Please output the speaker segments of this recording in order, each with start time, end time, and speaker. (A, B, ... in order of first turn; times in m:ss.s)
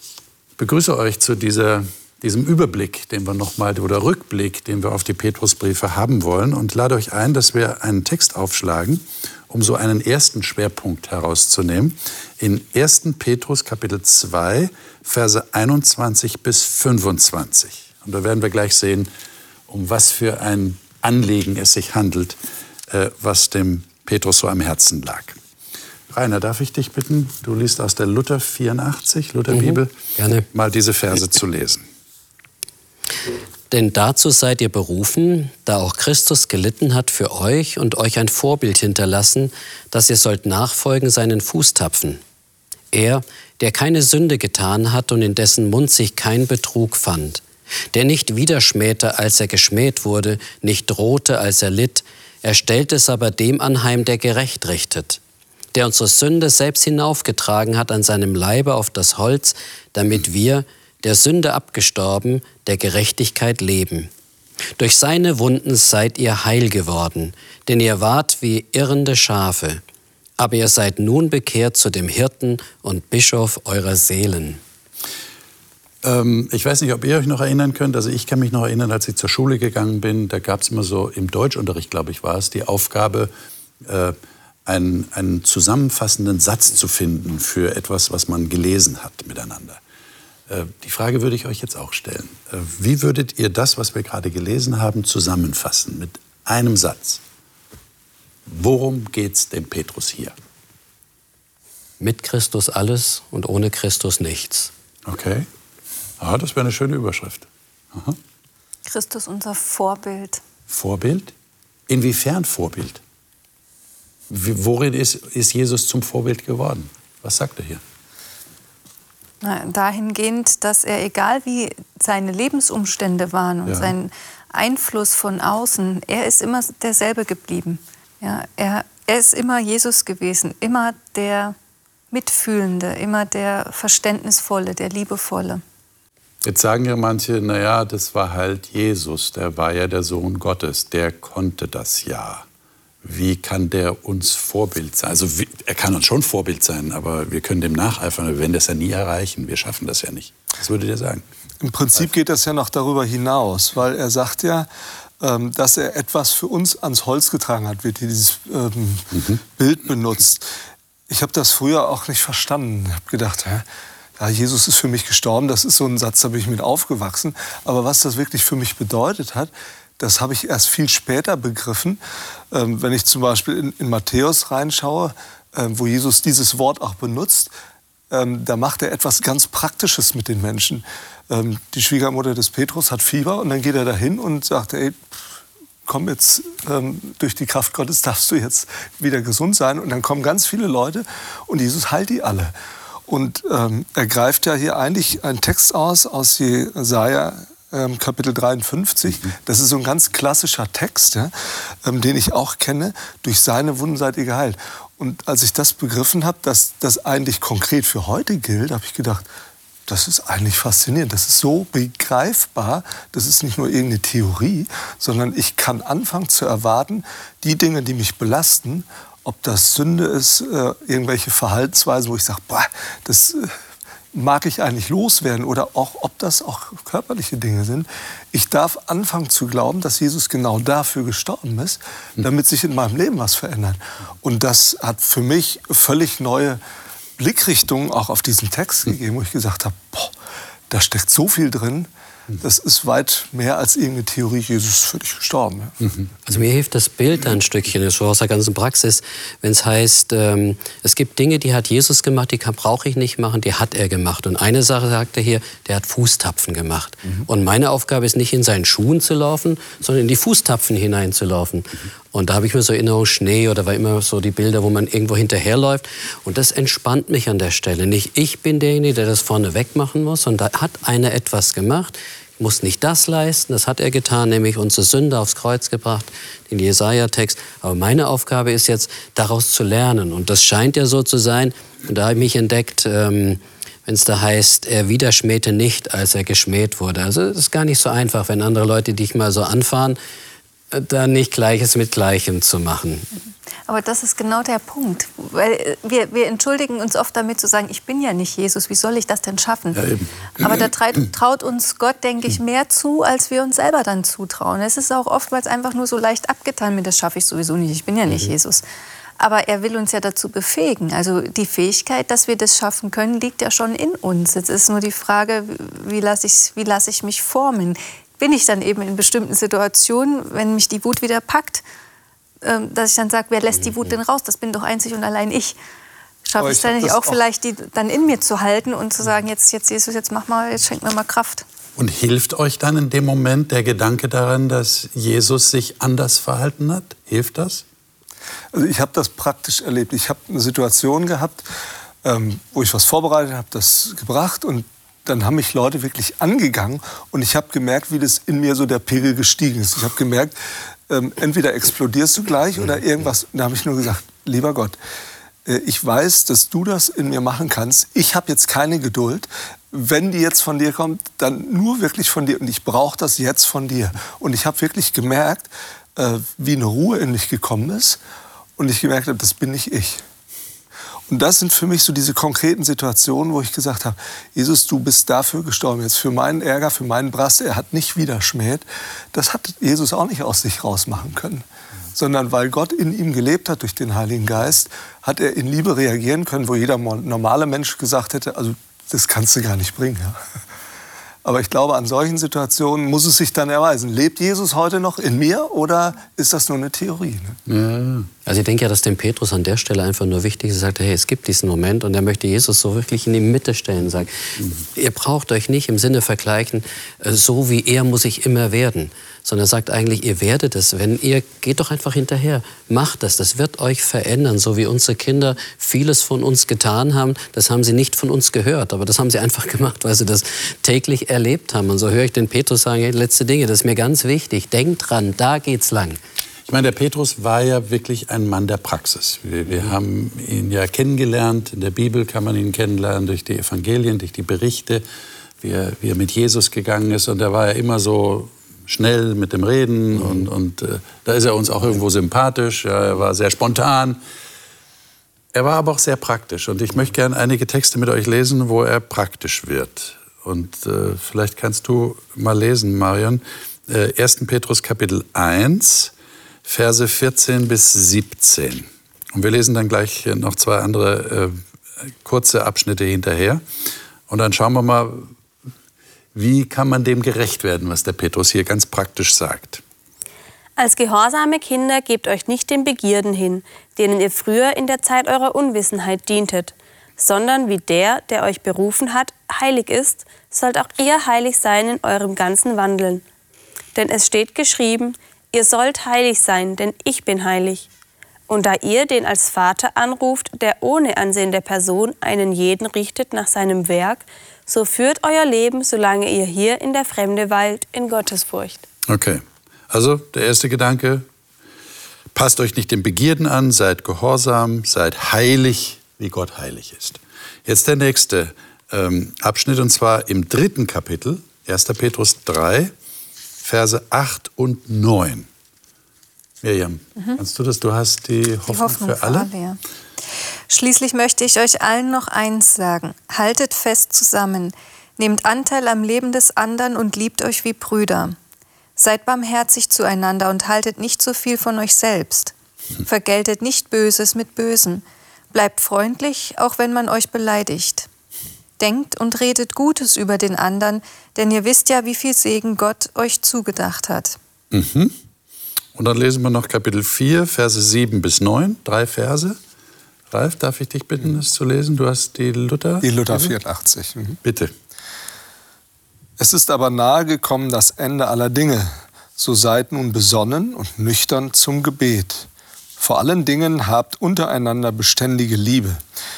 0:00.6-0:19.1 A
0:19.7-0:22.4 A
0:22.9-0:25.4 A
0:26.1-0:29.9 A
0:29.5-0:30.4 B
0:30.5-0:31.8 A
0:33.7-0:42.2 B
0:42.9-0:55.2 B
0:55.7-1:04.1 B
1:04.8-1:09.8 B
1:10.4-1:14.6 B
1:16.0-1:23.3 A
1:23.8-1:29.8 A
1:30.5-1:37.2 A
1:38.4-1:40.3 A
1:42.0-1:44.7 B
1:45.0-1:45.5 A
1:46.2-1:48.2 A
1:48.9-1:50.4 C
1:50.7-1:51.3 A
1:51.9-1:53.0 A
1:54.3-1:57.8 A
1:59.4-2:11.6 C
2:03.6-2:03.9 A
2:12.1-2:15.6 C
2:16.4-2:22.5 A
2:23.0-2:31.3 A
2:31.6-2:34.7 D
2:35.2-2:40.5 D
2:39.1-2:39.4 A
2:41.1-2:43.6 D
2:44.2-2:52.0 D
2:52.5-2:57.5 D
2:58.1-3:05.0 D
3:05.8-3:12.5 D
3:13.1-3:21.3 D
3:21.8-3:29.2 D
3:29.9-3:43.5 D
3:44.1-3:56.6 D
3:57.2-4:00.1 D
4:00.7-4:05.7 D
4:06.2-4:50.0 B
4:50.7-4:53.1 B
4:53.7-4:59.8 C
4:59.7-5:00.6 A
5:00.4-5:08.6 C
5:09.2-5:21.6 C
5:22.4-5:25.6 C
5:26.2-5:31.4 C
5:26.4-5:27.2 D
5:31.8-5:37.6 A
5:38.5-5:41.4 D
5:42.0-5:50.4 D
5:50.9-5:54.8 D
5:55.4-6:08.0 D
6:08.6-6:10.0 D
6:11.1-6:30.2 D
6:31.2-6:37.4 D
6:37.5-6:38.1 A
6:38.2-7:06.0 B
7:06.5-7:14.8 A
7:15.4-7:24.0 A
7:25.3-7:35.9 A
7:36.4-7:43.4 A
7:44.1-7:45.1 A
7:46.1-7:49.6 A
7:50.6-8:03.0 E
8:03.7-8:07.7 E
8:08.3-8:18.6 E
8:18.9-8:21.0 A
8:22.1-8:32.7 A
8:33.4-8:35.3 A
8:36.4-8:39.3 A
8:38.5-8:39.6 C
8:40.5-8:48.2 C
8:48.8-8:57.9 C
8:58.6-9:04.2 C
9:04.5-9:05.0 A
9:05.7-9:09.4 A
9:10.1-9:13.3 A
9:12.8-9:14.2 D
9:14.2-9:14.5 A
9:16.2-9:25.8 D